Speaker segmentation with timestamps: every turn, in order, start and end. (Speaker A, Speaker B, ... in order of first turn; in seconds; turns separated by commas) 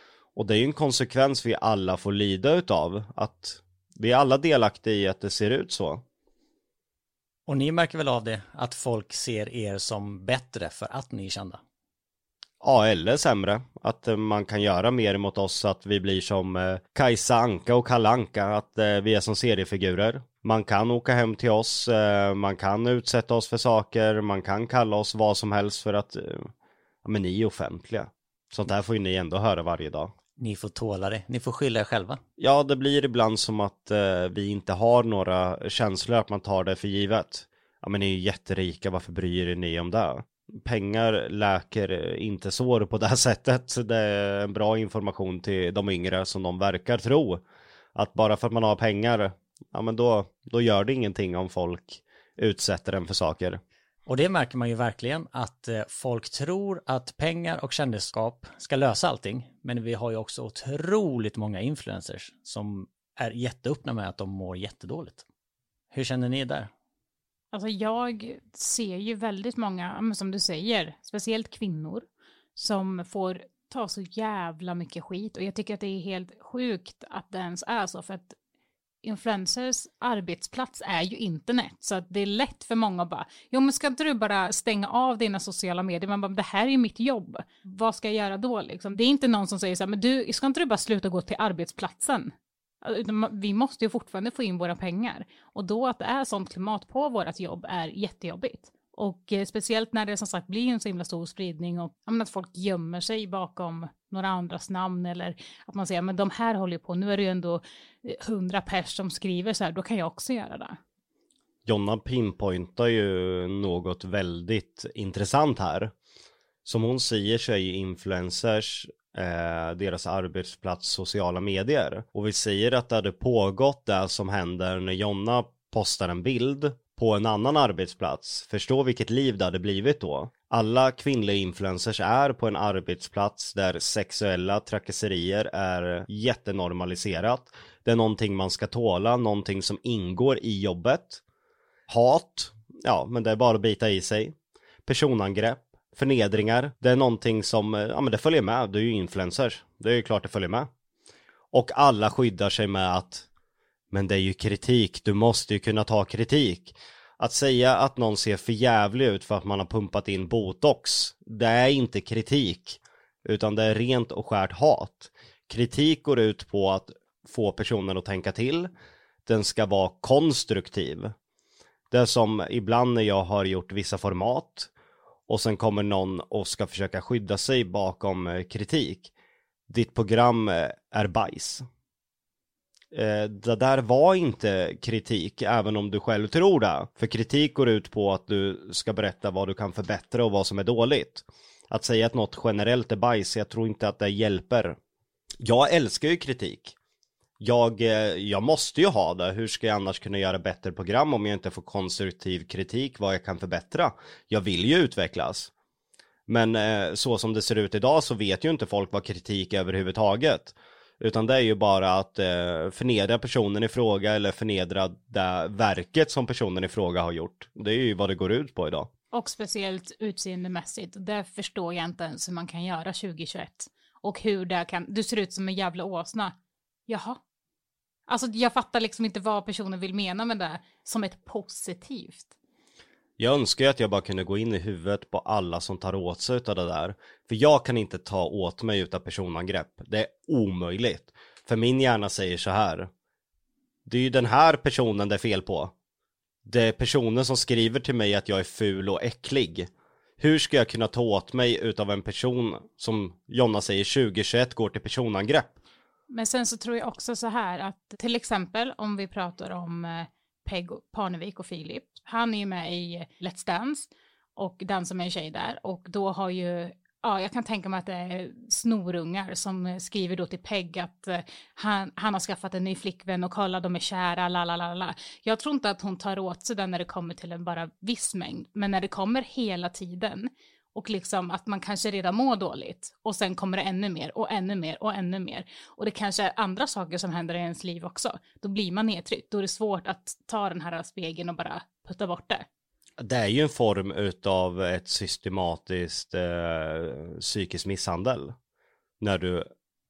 Speaker A: 0.3-6.0, Speaker B: 7.5-11.6, Speaker A: 12.6-26.5, Speaker A: 27.0-30.1, Speaker B: 30.4-32.2, Speaker A: 32.4-47.4, Speaker A: 47.9-53.6, Speaker B: 54.0-65.2, Speaker B: 65.9-66.7, Speaker C: 67.5-78.3, Speaker C: 79.0-110.8, Speaker A: 111.7-115.9, Speaker A: 116.7-141.2, Speaker A: 141.9-144.3, Speaker A: 144.8-150.7, Speaker A: 151.5-153.3, Speaker A: 153.9-168.7, Speaker A: 169.2-171.1, Speaker A: 171.9-174.7, Speaker A: 175.3-179.1, Speaker A: 179.7-181.6, Speaker A: 182.9-194.8, Speaker A: 195.4-196.7, Speaker A: 197.4-205.5, Speaker A: 206.3-218.9, Speaker C: 219.1-226.3, Speaker C: 226.9-227.2, Speaker C: 228.1-232.3, Speaker A: 233.2-242.9, Speaker A: 243.8-245.7, Speaker A: 246.4-255.6, Speaker C: 256.1-292.4, Speaker A: 293.0-298.3, Speaker A: 299.0-299.5